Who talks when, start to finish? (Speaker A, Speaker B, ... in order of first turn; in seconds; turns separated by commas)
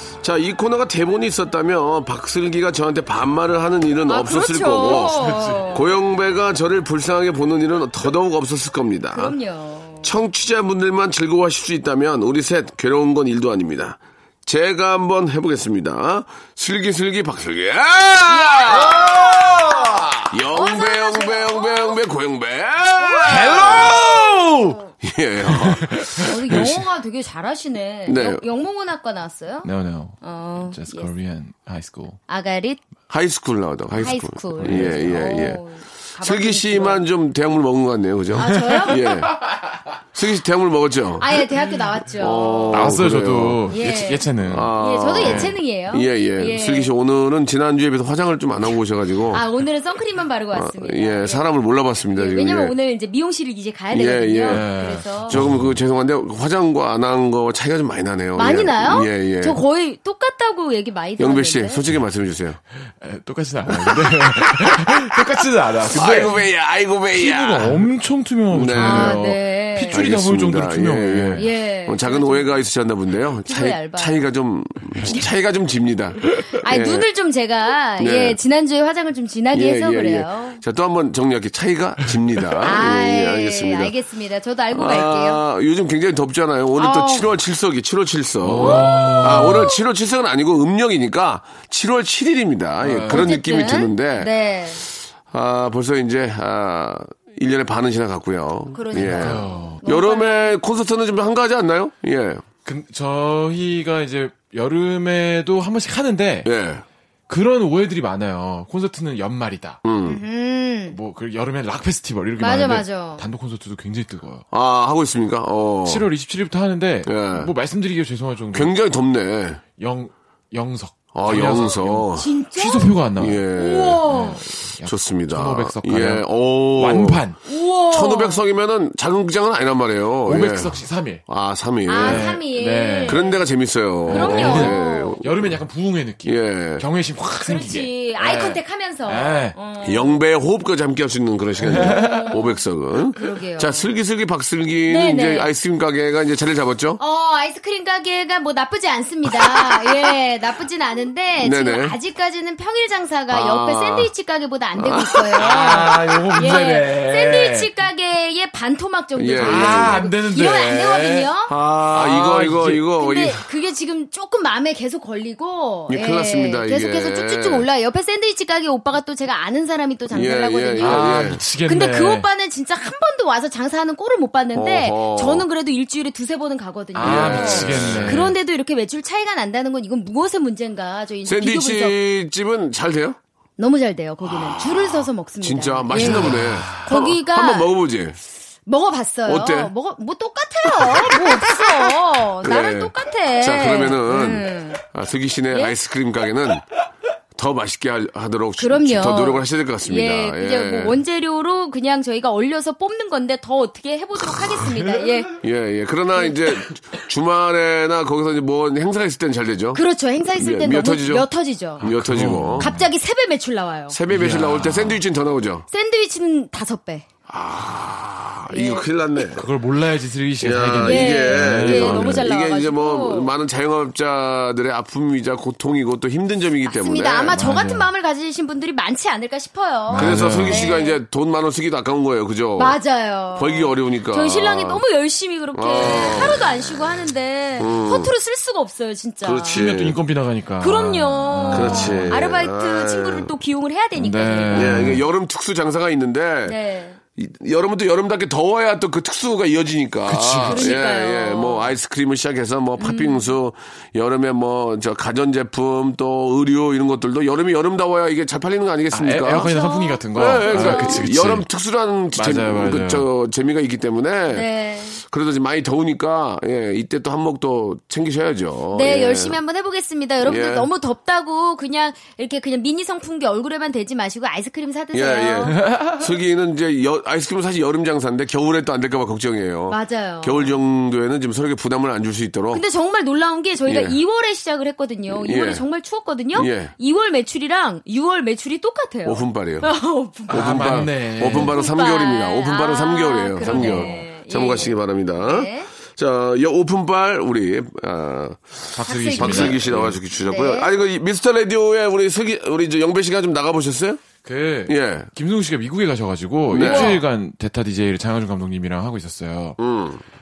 Speaker A: 0.2-9.4, Speaker B: 4.1-5.8, Speaker C: 4.9-5.7, Speaker B: 9.1-10.1, Speaker A: 10.0-19.1, Speaker B: 18.3-22.0, Speaker C: 18.7-20.2, Speaker A: 20.3-24.2, Speaker B: 23.0-24.0, Speaker C: 23.2-24.8, Speaker A: 25.0-26.8, Speaker C: 25.5-26.8, Speaker B: 26.3-29.7, Speaker A: 28.1-28.4, Speaker C: 29.6-32.2, Speaker B: 30.2-31.1, Speaker B: 32.3-32.8, Speaker A: 33.1-35.6, Speaker C: 34.0-35.4, Speaker B: 34.0-37.1, Speaker A: 36.2-39.4, Speaker B: 38.3-39.0, Speaker C: 38.5-39.6, Speaker A: 40.1-41.5, Speaker B: 41.2-42.9, Speaker A: 42.2-43.7, Speaker C: 42.7-44.7, Speaker B: 43.7-46.9, Speaker A: 44.4-49.4, Speaker C: 45.2-45.6, Speaker B: 49.3-51.4, Speaker A: 50.5-52.8, Speaker B: 52.1-55.4, Speaker A: 53.9-54.7, Speaker C: 54.5-55.8, Speaker A: 55.3-59.6, Speaker B: 58.4-61.8, Speaker A: 61.2-62.6, Speaker C: 62.9-66.4, Speaker A: 63.7-67.9, Speaker C: 67.1-71.5, Speaker A: 68.5-69.2, Speaker B: 68.8-70.0, Speaker A: 69.9-77.1, Speaker B: 71.3-72.6, Speaker B: 73.5-74.2, Speaker B: 76.5-80.6, Speaker A: 78.0-78.4, Speaker A: 79.5-83.9, Speaker B: 82.6-85.4, Speaker A: 84.7-94.3, Speaker B: 86.8-87.3, Speaker C: 88.4-89.8, Speaker B: 88.6-89.2, Speaker C: 92.8-93.3, Speaker B: 93.1-94.9, Speaker A: 94.9-102.5, Speaker B: 98.7-100.6, Speaker C: 98.9-99.8, Speaker C: 102.7-106.5, Speaker A: 106.4-106.8, Speaker C: 107.3-109.8, Speaker A: 109.8-110.2, Speaker B: 110.0-111.0, Speaker C: 110.9-114.4, Speaker B: 112.4-113.2, Speaker A: 114.5-116.1, Speaker C: 115.9-118.7, Speaker A: 117.0-117.5, Speaker A: 118.5-119.6, Speaker C: 119.8-123.4, Speaker A: 121.1-122.3, Speaker B: 122.1-123.0, Speaker A: 123.2-124.0, Speaker B: 123.5-124.4, Speaker C: 124.1-127.4, Speaker A: 124.8-127.3, Speaker B: 127.4-128.4, Speaker A: 127.9-132.4, Speaker C: 130.3-131.2, Speaker B: 131.9-133.4, Speaker C: 132.0-133.2, Speaker A: 133.1-135.5, Speaker C: 134.1-139.6, Speaker B: 134.1-135.2, Speaker A: 136.2-136.8, Speaker B: 137.4-140.2, Speaker A: 139.8-147.0, Speaker C: 141.7-142.3, Speaker B: 141.7-142.6, Speaker B: 143.1-143.9, Speaker B: 144.9-145.5, Speaker B: 147.0-161.5, Speaker A: 149.3-149.9, Speaker A: 151.4-152.0, Speaker A: 153.3-154.1, Speaker A: 154.8-156.6, Speaker C: 155.4-157.7, Speaker A: 159.2-160.0, Speaker C: 159.4-161.3, Speaker A: 161.5-163.5, Speaker C: 161.9-162.8, Speaker B: 162.9-181.9, Speaker A: 165.9-167.7, Speaker A: 170.1-171.4, Speaker C: 170.8-172.3, Speaker A: 174.6-175.5, Speaker C: 176.9-178.3, Speaker A: 177.0-178.3, Speaker A: 181.2-183.2, Speaker B: 183.6-187.7, Speaker A: 184.3-188.2, Speaker C: 185.9-186.9, Speaker B: 188.7-194.8, Speaker A: 189.3-189.7, Speaker A: 190.7-191.9, Speaker A: 192.4-196.7, Speaker A: 197.3-201.0, Speaker B: 198.6-205.4, Speaker A: 205.4-209.8, Speaker B: 209.8-211.9, Speaker A: 210.4-211.3, Speaker A: 211.8-212.7, Speaker C: 211.8-212.9, Speaker B: 212.6-214.0, Speaker A: 213.9-215.7, Speaker C: 214.1-215.0, Speaker B: 215.7-217.1, Speaker A: 217.3-219.5, Speaker B: 218.5-218.9, Speaker C: 219.3-222.2, Speaker A: 220.4-227.4, Speaker B: 220.8-223.3, Speaker B: 226.6-231.0, Speaker C: 227.3-227.9, Speaker C: 229.9-230.8, Speaker A: 229.9-232.8, Speaker B: 232.6-239.6, Speaker A: 233.3-234.8, Speaker A: 235.5-236.5, Speaker A: 237.6-238.1, Speaker A: 239.2-240.0, Speaker C: 239.5-242.2, Speaker B: 240.6-244.8, Speaker A: 241.5-243.3, Speaker C: 243.9-245.0, Speaker A: 244.5-246.6, Speaker B: 246.5-247.0, Speaker A: 247.2-259.5, Speaker C: 250.1-250.8, Speaker B: 250.5-251.7, Speaker B: 252.8-253.3, Speaker C: 258.9-261.5, Speaker B: 259.4-261.1, Speaker A: 260.1-269.4, Speaker C: 262.1-263.1, Speaker B: 264.3-265.0, Speaker B: 268.7-275.6, Speaker A: 270.2-270.7, Speaker A: 274.9-282.6, Speaker C: 275.5-276.0, Speaker B: 279.7-280.5, Speaker B: 282.5-295.7, Speaker A: 283.7-284.0, Speaker A: 285.1-285.6, Speaker A: 286.3-286.7, Speaker A: 289.1-289.7, Speaker C: 290.3-291.6, Speaker A: 290.3-304.0, Speaker C: 293.4-294.0, Speaker C: 298.8-300.0, Speaker B: 298.8-299.7, Speaker B: 300.2-300.7, Speaker C: 304.2-309.6, Speaker A: 304.7-305.1, Speaker A: 306.5-307.0, Speaker B: 306.6-307.0, Speaker A: 309.6-310.0